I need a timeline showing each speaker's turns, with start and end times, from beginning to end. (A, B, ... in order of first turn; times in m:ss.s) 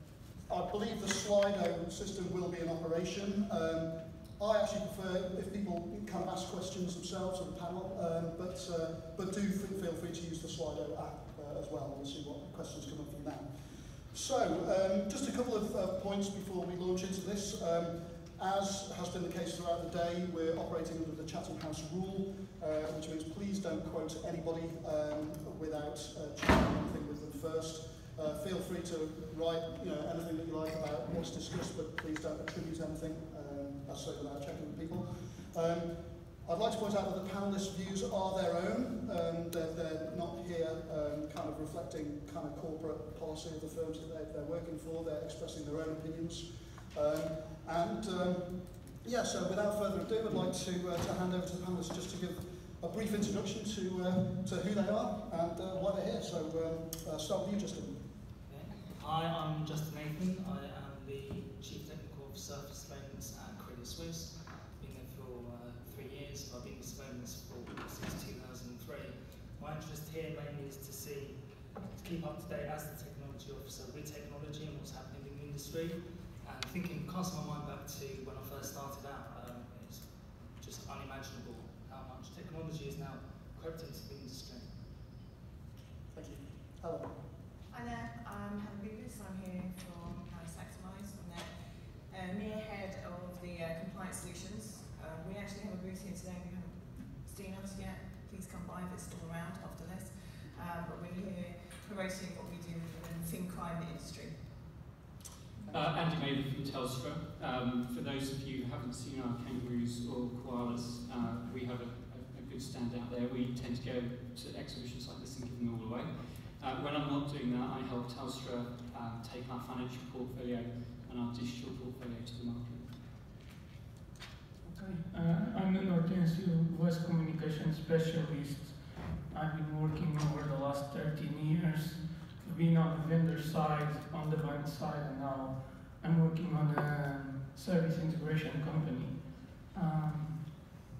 0:00.5-0:13.5 A
0:14.1-0:35.9 A
0:36.4-0:58.0 A
0:58.5-1:20.0 B
1:20.6-1:24.7 B
1:26.1-1:27.1 A
1:27.7-1:31.5 C
1:32.1-1:44.4 C
1:45.7-2:02.9 D
2:04.6-2:08.7 E
2:09.3-2:19.2 E
2:19.7-2:20.4 E